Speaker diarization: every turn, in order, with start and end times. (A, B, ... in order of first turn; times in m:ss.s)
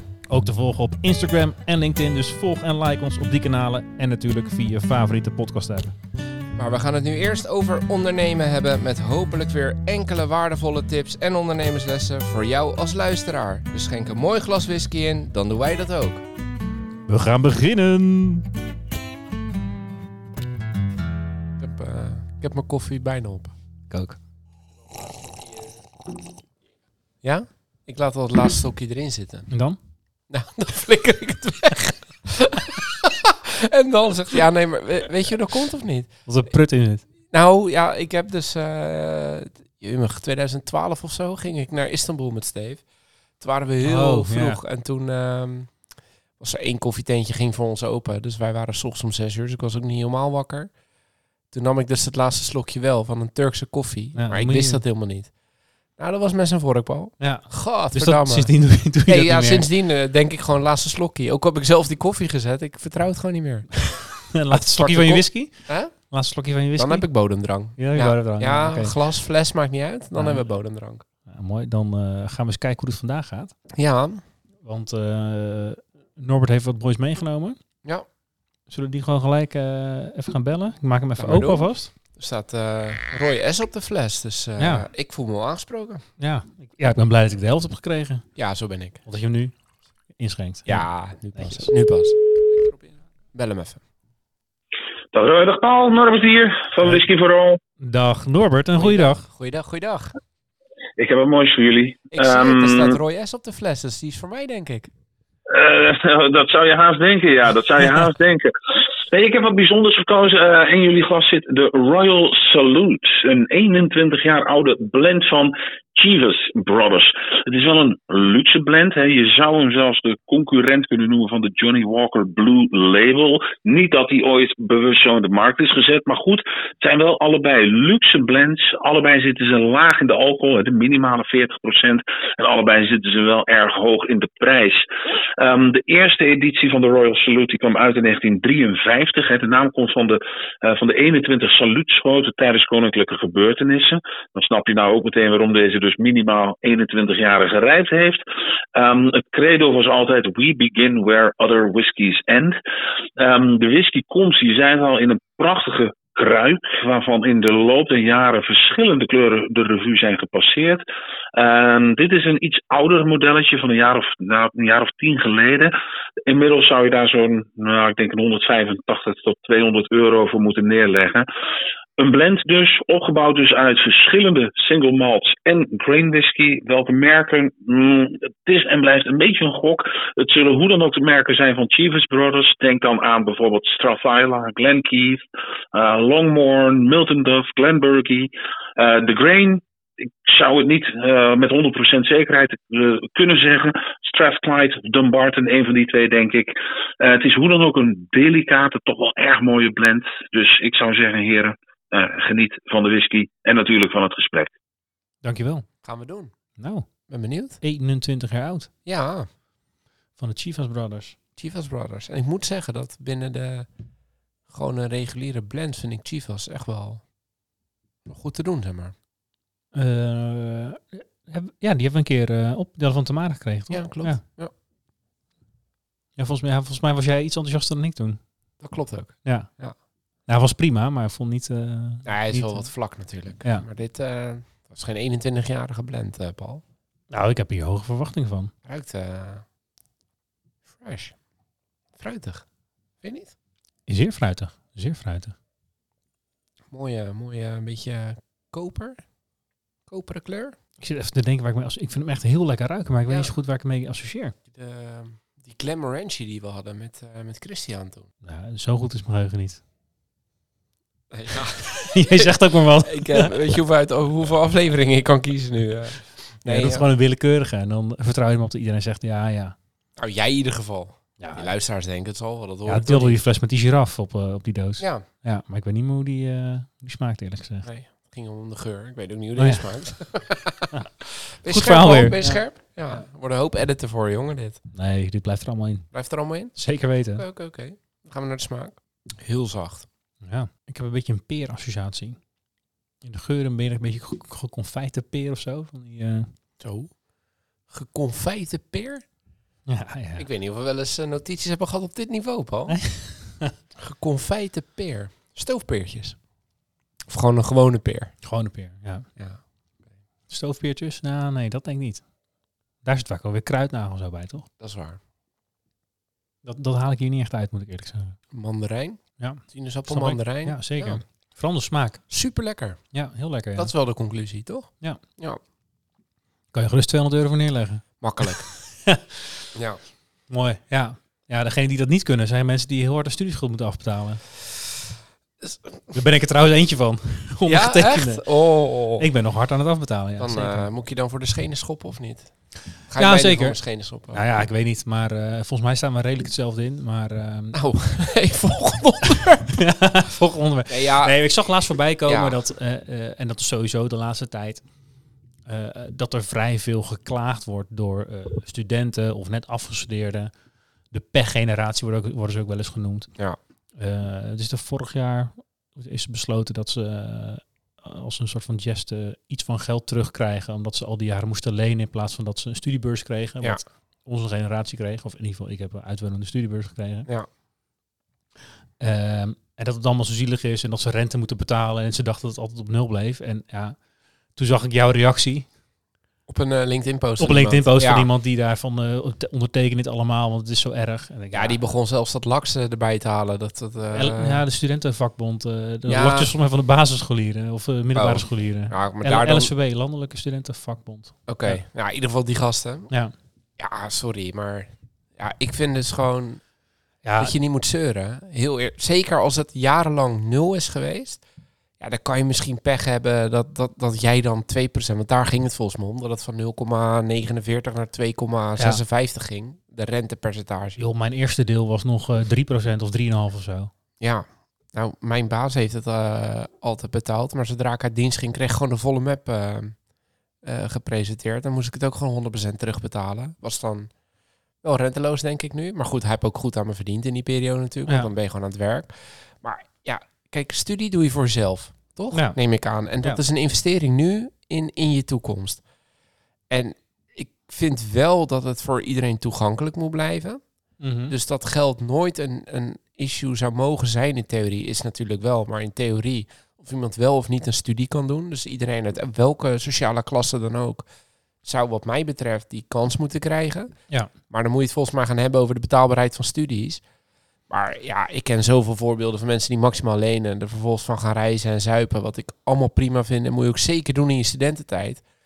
0:00.3-0:05.9 A
0:06.5-0:16.2 B
0:17.1-0:18.5 A
0:21.6-0:23.5 B
0:23.9-0:24.2 A
0:25.0-0:25.7 B
0:27.2-0:29.5 B
0:29.5-0:29.8 A
0:30.3-0:36.2 B
0:36.2-0:37.0 A
0:37.3-0:42.8 B
0:43.4-0:45.8 B
0:43.8-0:44.6 A
0:46.4-0:50.7 B
0:51.5-0:55.3 B
0:54.2-0:54.8 A
0:56.0-1:03.8 B
0:57.2-0:59.6 A
1:03.9-1:07.1 A
1:04.5-1:05.9 B
1:06.8-1:11.0 B
1:07.8-1:08.9 A
1:10.2-1:10.4 A
1:11.2-1:13.5 A
1:13.7-1:14.2 B
1:14.6-1:17.6 A
1:18.7-1:21.9 A
1:21.2-1:26.0 B
1:24.6-1:24.9 A
1:26.2-1:28.2 A
1:28.4-1:29.0 B
1:29.0-1:29.6 A
1:30.1-1:31.7 A
1:30.7-1:32.8 B
1:33.3-1:33.8 B
1:35.1-1:37.6 C
1:37.8-1:39.2 A
1:38.7-1:40.1 B
1:41.0-1:43.0 C
1:42.1-1:44.9 B
1:45.5-2:14.8 C
2:15.4-2:28.2 C
2:28.7-2:32.6 C
2:33.2-2:40.8 C
2:41.3-2:45.7 C
2:46.3-2:51.3 C
2:52.0-3:09.6 C
3:10.2-3:24.5 C
3:25.2-3:25.7 A
3:25.8-3:26.3 B
3:26.6-3:26.9 A
3:27.1-3:27.6 B
3:27.6-3:28.7 A
3:28.8-3:29.3 B
3:30.2-3:31.2 A
3:31.4-3:33.7 B
3:34.5-3:37.1 B
3:38.0-3:38.9 B
3:39.7-3:44.2 A
3:43.7-3:44.5 B
3:46.2-3:48.2 A
3:48.6-3:49.7 B
3:49.2-3:49.5 A
3:50.2-3:52.7 A
3:52.0-3:56.6 B
3:57.1-3:58.5 A
3:58.6-3:59.4 B
4:00.7-4:01.2 B
4:02.0-4:02.4 B
4:03.0-4:03.3 B
4:03.9-4:05.3 A
4:06.7-4:09.0 B
4:09.9-4:10.6 B
4:10.8-4:14.3 A
4:13.1-4:13.3 B
4:14.5-4:18.1 B
4:18.2-4:19.6 A
4:21.1-4:26.8 B
4:21.6-4:23.6 A
4:26.4-4:29.6 A
4:30.0-4:33.2 B
4:31.2-4:31.4 A
4:32.6-4:37.7 A
4:37.6-4:40.7 B
4:39.4-4:39.7 A
4:41.3-4:44.6 B
4:41.4-4:42.4 A
4:44.7-4:45.9 A
4:45.9-4:49.9 B
4:46.5-4:47.2 A
4:50.2-4:52.2 A
4:53.0-4:56.3 A
4:56.6-4:57.0 B
4:57.7-4:59.0 B
4:59.7-5:00.2 A
5:00.2-5:02.8 B
5:02.7-5:03.5 A
5:03.8-5:06.2 B
5:07.1-5:08.1 B
5:08.2-5:09.1 A
5:10.3-5:12.1 A
5:12.8-5:14.5 A
5:14.6-5:15.0 B
5:16.4-5:18.2 A
5:18.3-5:21.0 B
5:19.2-5:22.0 A
5:22.1-5:22.8 B
5:22.9-5:23.7 A
5:23.6-5:25.4 B
5:26.5-5:29.2 A
5:28.0-5:28.5 B
5:29.5-5:29.8 B
5:30.3-5:34.2 A
5:35.9-5:38.2 A
5:37.5-5:39.1 B
5:39.0-5:40.6 A
5:40.2-5:42.3 B
5:42.9-5:44.2 B
5:43.0-5:43.6 A
5:44.1-5:47.6 A
5:47.5-5:49.5 B
5:49.5-5:54.6 A
5:50.7-5:51.2 B
5:52.0-5:52.4 B
5:55.4-6:00.3 A
6:00.9-6:03.1 A
6:03.8-6:17.1 A
6:18.8-6:23.8 A
6:24.3-6:25.5 A
6:26.3-6:28.1 B
6:27.2-6:31.6 A
6:31.3-6:34.4 B
6:33.9-6:41.6 A
6:35.9-6:36.3 B
6:37.9-6:39.5 B
6:41.3-6:42.9 B
6:43.6-6:46.4 B
6:47.0-6:47.3 A
6:47.2-6:51.2 B
6:51.8-7:00.8 B
7:00.8-7:03.7 A
7:04.0-7:09.8 B
7:10.4-7:13.9 B
7:14.6-7:25.6 B
7:22.1-7:22.4 A
7:26.5-7:30.4 B
7:30.8-7:31.1 A
7:31.1-7:40.8 B
7:41.4-7:43.7 B
7:44.3-7:46.8 B
7:47.5-7:55.0 B